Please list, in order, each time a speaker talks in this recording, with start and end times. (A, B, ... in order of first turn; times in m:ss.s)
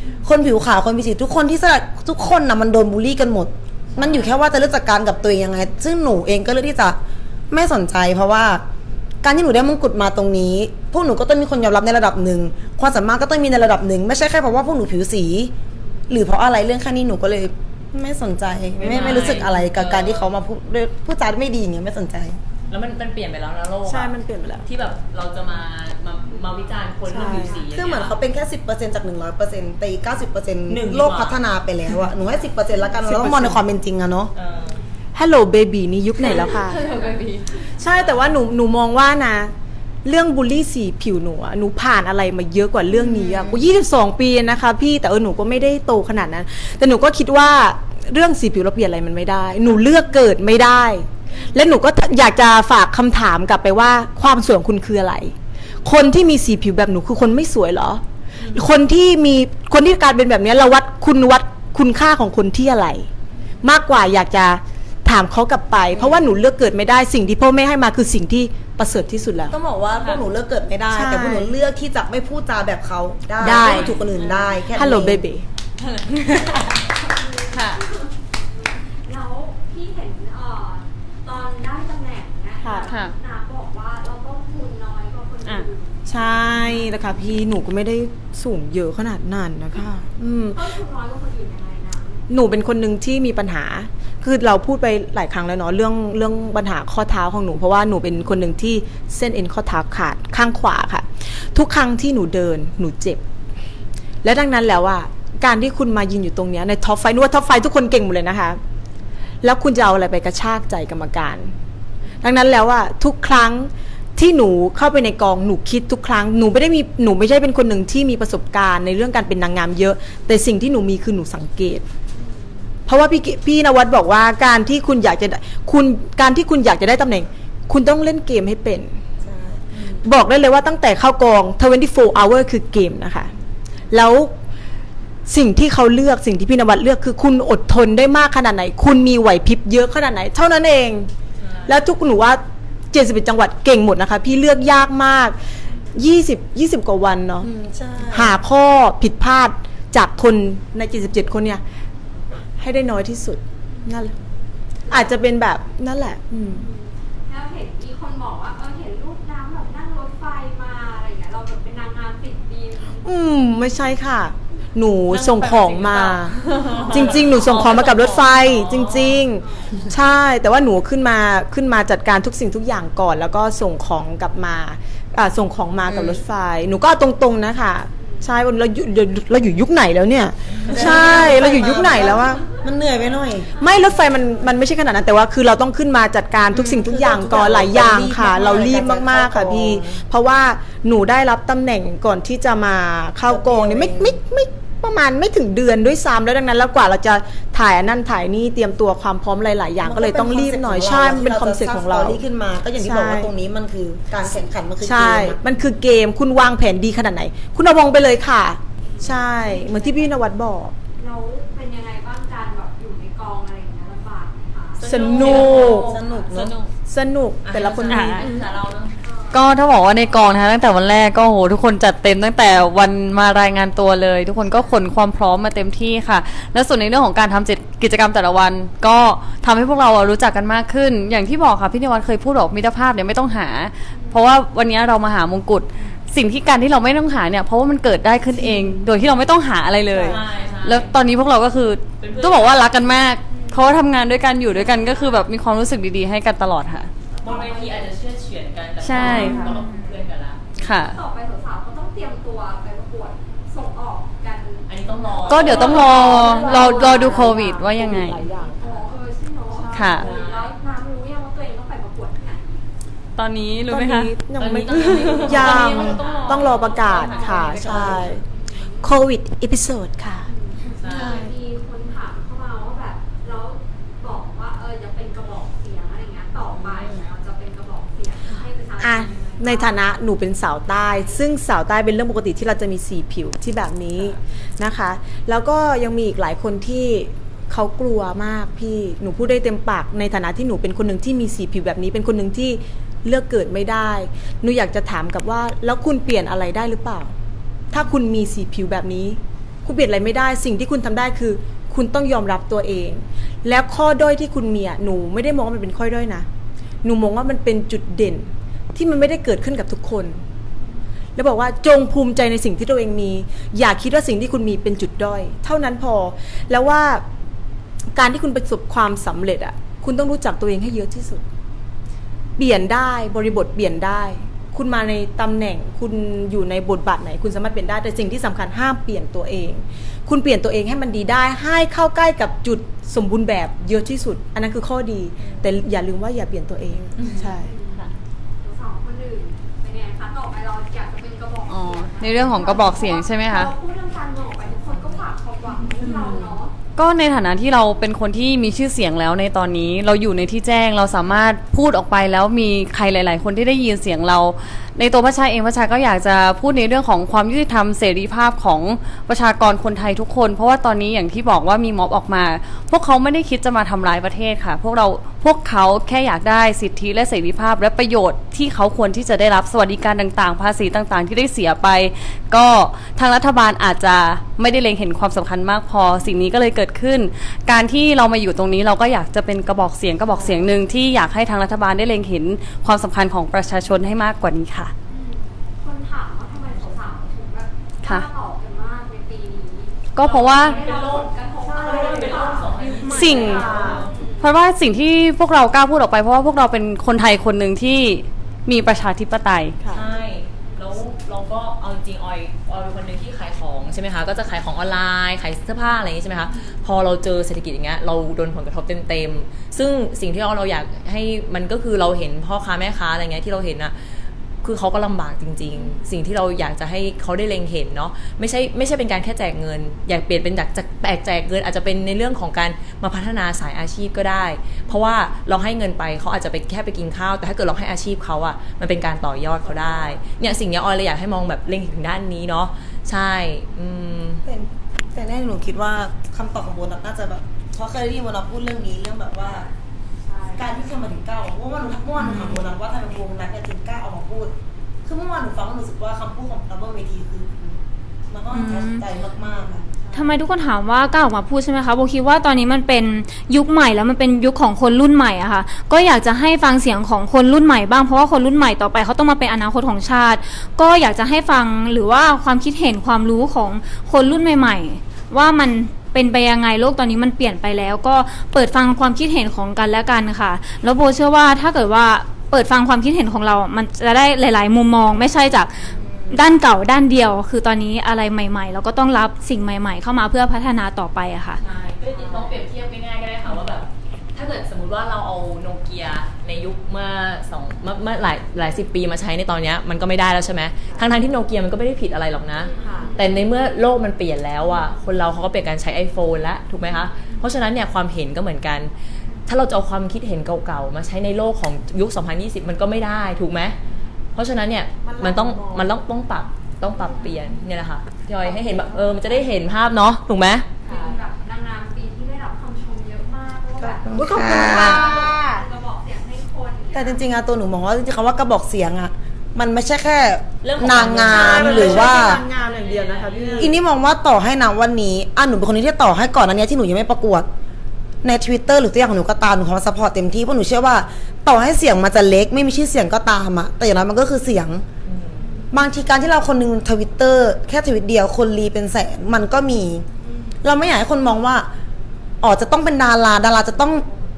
0:00.2-0:07.0 A
0:04.0-0:04.3 B
0:07.5-0:08.6 A
0:09.2-0:15.5 A
0:16.1-0:22.4 A
0:18.8-0:20.3 B
0:22.7-0:28.2 B
0:23.8-0:24.7 C
0:26.3-0:27.7 D
0:27.0-0:27.6 C
0:27.7-0:34.3 A
0:30.7-0:31.4 B
0:33.1-0:33.6 C
0:34.4-0:34.8 B
0:35.1-0:36.8 C
0:36.2-0:38.0 B
0:37.3-0:37.5 E
0:37.7-0:39.5 C
0:40.0-0:55.3 C
0:55.8-0:58.0 C
0:58.5-1:03.1 C
1:03.6-1:09.6 C
1:06.0-1:06.2 A
1:09.5-1:15.2 A
1:10.9-1:11.5 C
1:13.4-1:14.0 C
1:13.5-1:14.6 B
1:14.8-1:15.5 C
1:15.8-1:16.3 B
1:16.5-1:27.2 D
1:17.5-1:17.8 E
1:22.6-1:22.9 C
1:26.1-1:30.6 C
1:30.4-1:32.3 D
1:32.3-1:43.2 C
1:44.2-1:48.6 C
1:49.4-1:51.5 C
1:52.2-2:01.8 C
2:02.1-2:02.8 D
2:02.9-2:09.0 C
2:09.2-2:09.8 A
2:09.8-2:13.3 C
2:13.9-2:14.3 C
2:15.3-2:21.1 C
2:21.4-2:21.8 B
2:21.7-2:25.4 C
2:26.0-2:27.5 C
2:27.4-2:28.4 A
2:28.1-2:31.6 C
2:32.6-2:34.1 C
2:33.7-2:34.1 D
2:34.9-2:35.2 D
2:34.9-2:36.6 C
2:36.5-2:43.1 D
2:43.0-2:46.3 C
2:45.1-2:49.3 B
2:46.6-2:47.6 D
2:46.9-3:02.4 C
2:49.3-2:49.9 D
2:55.9-2:56.2 A
2:57.9-2:58.5 D
3:00.7-3:03.5 A
3:03.5-3:04.5 D
3:03.6-3:22.2 C
3:06.5-3:10.0 A
3:13.3-3:14.2 A
3:19.8-3:25.4 A
3:22.8-3:23.3 C
3:24.8-3:30.8 C
3:28.8-3:29.7 D
3:29.8-3:30.1 E
3:31.0-3:35.0 D
3:34.8-3:36.7 B
3:34.9-3:36.0 C
3:35.1-3:36.6 A
3:36.9-3:38.3 C
3:37.4-3:39.0 B
3:37.9-3:38.4 E
3:39.0-3:40.2 D
3:39.3-4:06.9 E
3:44.5-3:44.9 D
3:53.9-3:54.4 D
3:58.4-3:58.8 C
4:00.0-4:01.1 B
4:02.0-4:03.0 B
4:03.3-4:03.9 D
4:04.4-4:05.1 D
4:07.1-4:08.0 D
4:07.2-4:10.4 B
4:08.8-4:09.5 E
4:09.0-4:10.0 F
4:10.6-4:10.9 E
4:10.8-4:17.3 D
4:14.7-4:16.6 B
4:15.3-4:18.3 E
4:15.4-4:18.6 C
4:18.5-4:22.7 D
4:19.7-4:20.0 E
4:19.8-4:20.5 B
4:23.2-4:24.1 E
4:23.7-4:28.2 C
4:24.4-4:28.1 B
4:25.3-4:28.1 E
4:26.1-4:27.3 D
4:27.6-4:28.0 A
4:28.2-4:29.0 D
4:28.8-4:30.3 C
4:30.2-4:40.1 D
4:30.8-4:31.3 B
4:38.8-4:57.1 C
4:40.6-4:41.2 D
4:57.7-5:06.3 C
5:06.8-5:10.2 C
5:11.2-5:17.0 C
5:18.0-5:21.2 C
5:22.4-5:37.5 C
5:37.4-5:37.9 D
5:38.4-5:46.6 D
5:41.5-5:43.5 E
5:46.8-6:24.7 E
6:24.9-6:32.7 D
6:30.0-6:30.6 E
6:30.0-6:34.0 B
6:32.7-6:33.8 C
6:32.8-6:33.5 E
6:33.3-6:34.4 D
6:34.2-6:39.6 E
6:39.6-6:39.9 C
6:39.7-6:53.8 B
6:54.4-7:14.2 B
7:14.3-7:19.5 A
7:20.4-7:24.3 A
7:22.0-7:22.4 F
7:24.9-7:27.6 A
7:28.1-7:29.7 A
7:28.3-7:28.8 F
7:29.8-7:30.1 C
7:29.9-8:01.4 F
8:01.4-8:18.7 B
8:01.9-8:02.5 D
8:03.3-8:03.5 D
8:12.4-8:13.6 D
8:16.7-8:17.2 D
8:19.3-8:23.6 B
8:24.2-8:30.5 B
8:24.8-8:25.7 C
8:26.8-8:27.1 D
8:28.5-8:29.0 C
8:30.6-8:37.1 D
8:33.6-8:35.4 C
8:33.9-8:34.9 A
8:36.7-8:42.2 A
8:40.4-8:42.0 B
8:40.9-8:43.6 C
8:41.8-8:43.3 D
8:43.4-8:47.3 A
8:48.0-8:54.6 A
8:54.8-8:55.3 B
8:55.2-8:55.5 D
8:55.5-8:59.9 A
9:00.4-9:01.5 A
9:02.2-9:03.8 A